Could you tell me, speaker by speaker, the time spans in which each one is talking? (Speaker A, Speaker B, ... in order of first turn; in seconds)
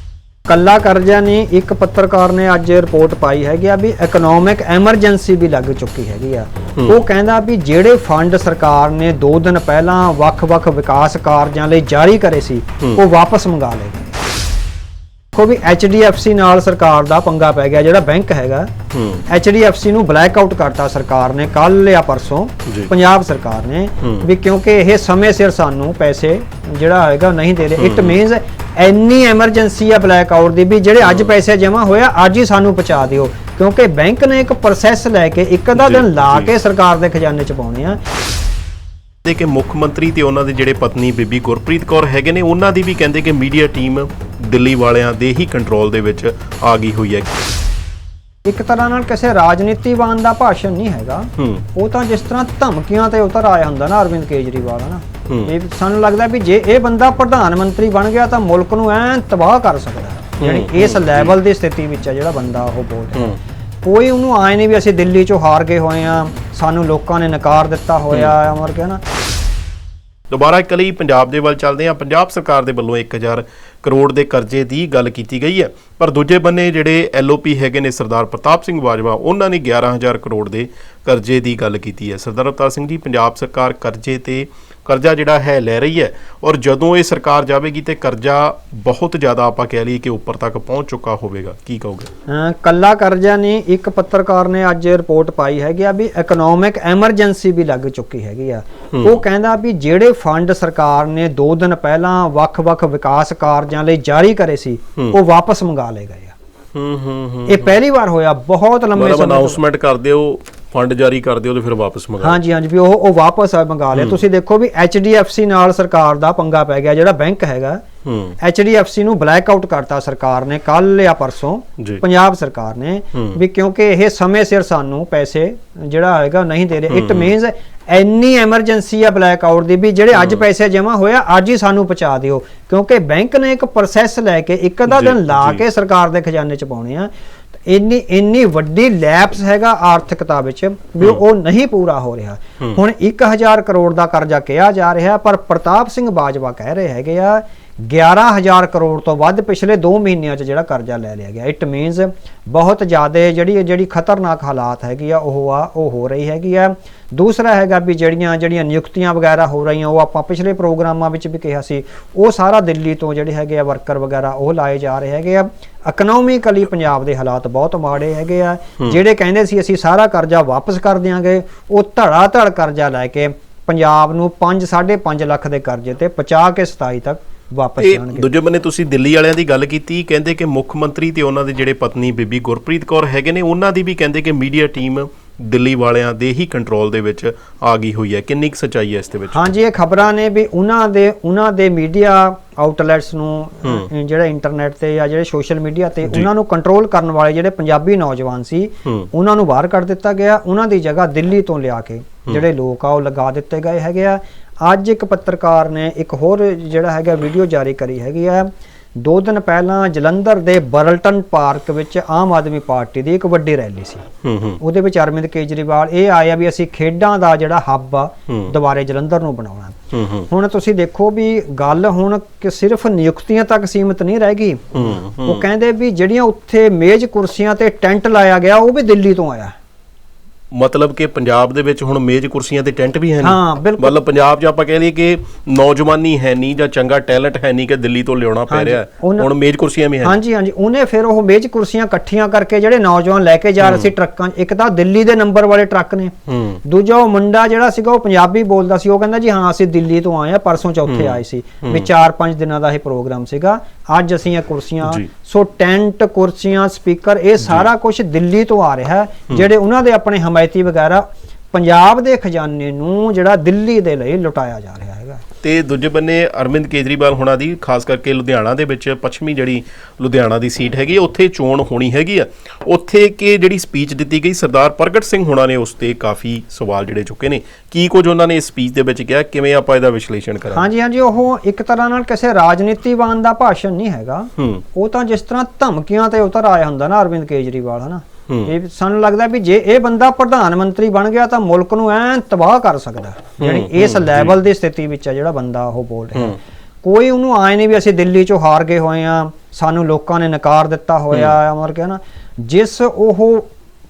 Speaker A: 0.5-14.1, 15.3-18.7, 19.3-38.0, 48.5-69.0, 92.3-106.3, 107.5-109.6, 112.2-117.8, 118.4-137.1, 137.7-178.3, 189.3-214.1, 214.6-229.6, 233.2-234.0, 238.5-239.3, 240.0-246.1, 246.6-265.2, 280.5-303.5
Speaker B: 18.9-19.2, 22.7-22.9, 27.8-28.2, 31.0-31.3, 35.8-36.5, 39.2-47.4, 51.4-51.6, 60.4-61.4, 70.3-92.1, 98.9-99.2, 106.7-107.7, 108.9-112.4, 114.0-114.2, 118.0-118.4, 126.9-127.3, 130.1-130.4, 134.9-135.6, 177.8-189.5, 214.2-214.6, 219.9-220.3, 224.7-225.4, 230.5-240.2, 243.6-243.9, 246.3-246.6, 250.9-251.9, 254.8-255.1, 265.4-280.7, 284.4-284.6, 293.4-294.4